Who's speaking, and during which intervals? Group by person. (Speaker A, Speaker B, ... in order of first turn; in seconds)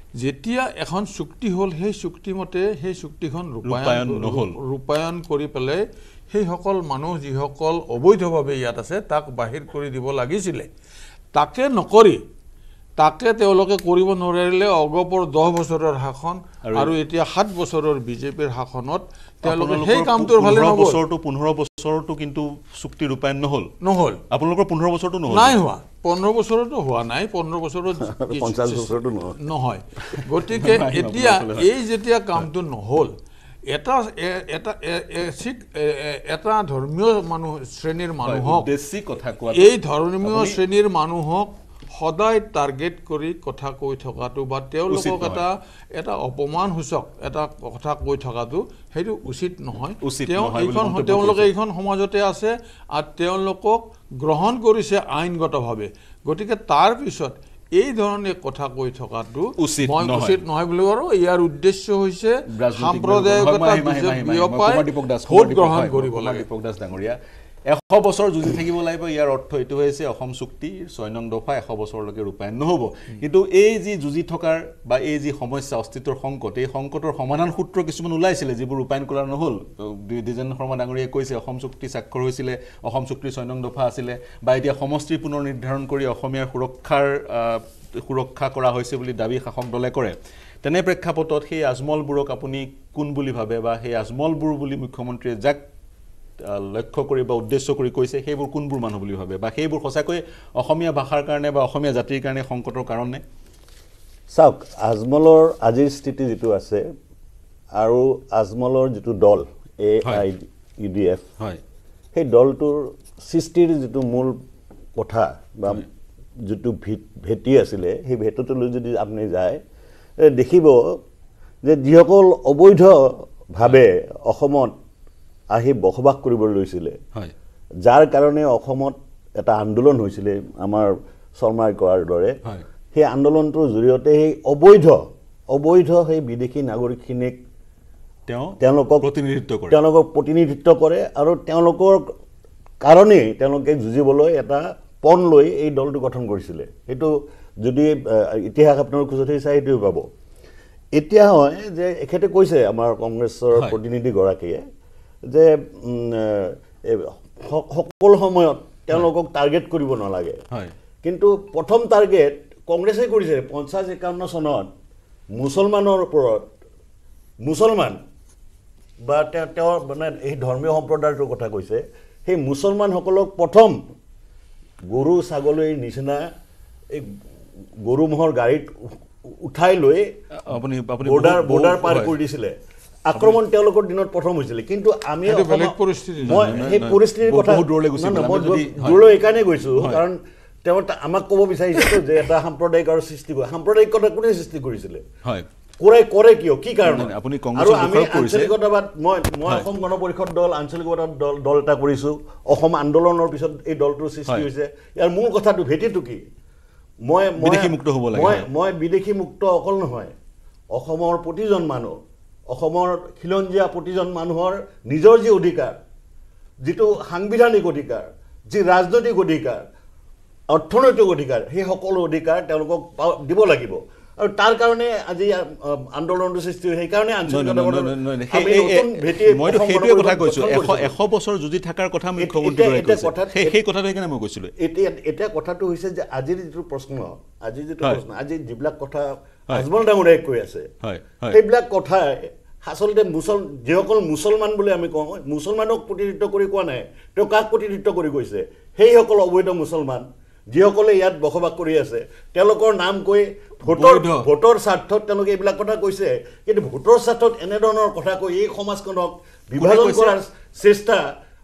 Speaker A: 0.2-10.7, 11.3-12.2, 13.0-21.0, 23.8-24.2, 25.3-33.1, 33.7-38.7, 39.5-66.5, 185.2-186.5
Speaker B: 3.6-4.6, 16.6-16.9, 19.4-23.7, 24.3-25.6, 30.2-31.7, 38.2-40.6, 44.9-45.4, 50.0-51.5, 59.6-60.4, 62.5-67.2, 67.7-95.6, 96.4-103.2, 138.3-139.8, 180.3-182.2, 186.2-189.0, 189.8-190.0, 196.8-198.5, 207.4-208.4, 227.3-234.5, 240.8-241.4, 253.7-254.2, 259.6-260.2
Speaker C: 28.0-29.4, 104.3-106.8, 107.8-111.2, 112.1-114.4, 115.0-115.9, 116.4-119.6, 120.2-120.8, 121.6-124.7, 125.5-127.0, 127.8-132.4, 132.9-137.4, 138.6-139.1, 139.7-142.1, 142.8-150.1, 150.9-154.6, 155.3-160.4, 161.0-164.7, 165.3-166.5, 167.4-168.0, 169.0-173.8, 174.9-176.3, 176.9-177.2, 177.8-180.1, 181.0-182.5, 183.1-195.0, 195.8-206.2, 207.1-210.1, 210.7-212.0, 212.5-215.8, 216.6-219.6, 220.5-230.9, 232.2-233.6, 234.6-240.7, 241.3-261.1